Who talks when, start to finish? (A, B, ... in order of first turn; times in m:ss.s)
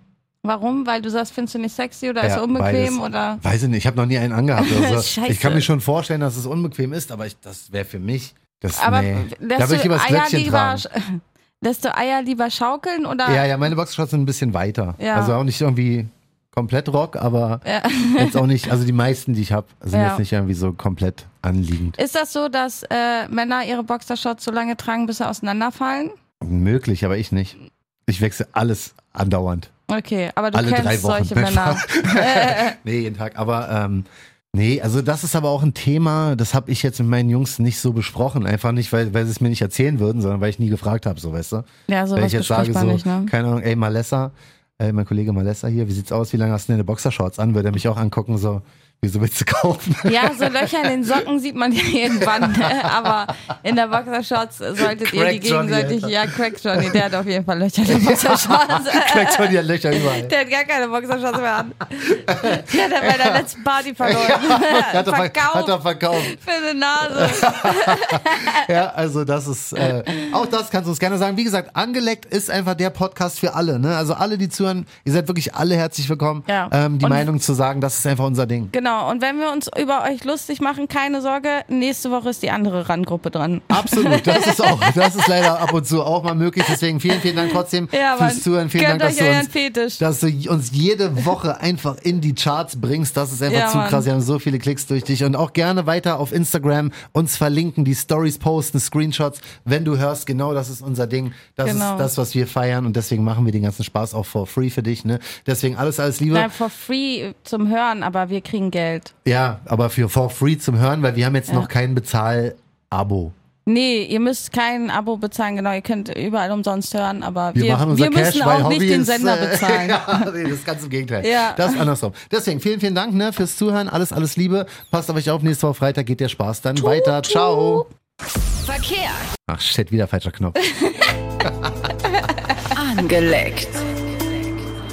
0:00.4-0:03.4 A
0:02.2-0:10.8 B
0:04.6-0:05.7 A
0:08.7-0:13.4 A
0:13.2-0:22.0 B
0:15.0-0:15.4 A
0:17.6-0:18.4 A
0:19.9-0:20.2 A
0:22.0-0:26.2 A
0:26.4-0:29.7 B
0:29.9-0:32.8 A
0:30.5-0:51.2 B
0:41.9-0:43.3 A
0:50.0-1:08.7 A
0:52.2-0:53.2 B
0:54.8-0:57.0 B
0:57.9-1:00.3 B
1:02.1-1:03.4 B
1:04.0-1:06.4 B
1:07.0-1:18.7 B
1:09.8-1:10.3 A
1:16.5-1:17.3 A
1:18.7-1:25.7 A
1:23.7-1:46.5 B
1:26.6-1:30.0 A
1:33.5-1:34.0 A
1:41.6-1:42.1 A
1:46.3-1:49.1 A
1:49.2-1:53.3 B
1:53.6-2:00.3 A
1:57.5-2:07.8 B
2:01.2-2:01.9 A
2:06.7-2:07.9 A
2:08.5-2:09.3 C
2:09.5-2:10.6 B
2:10.6-2:11.2 A
2:11.4-2:11.9 B
2:12.7-2:14.4 C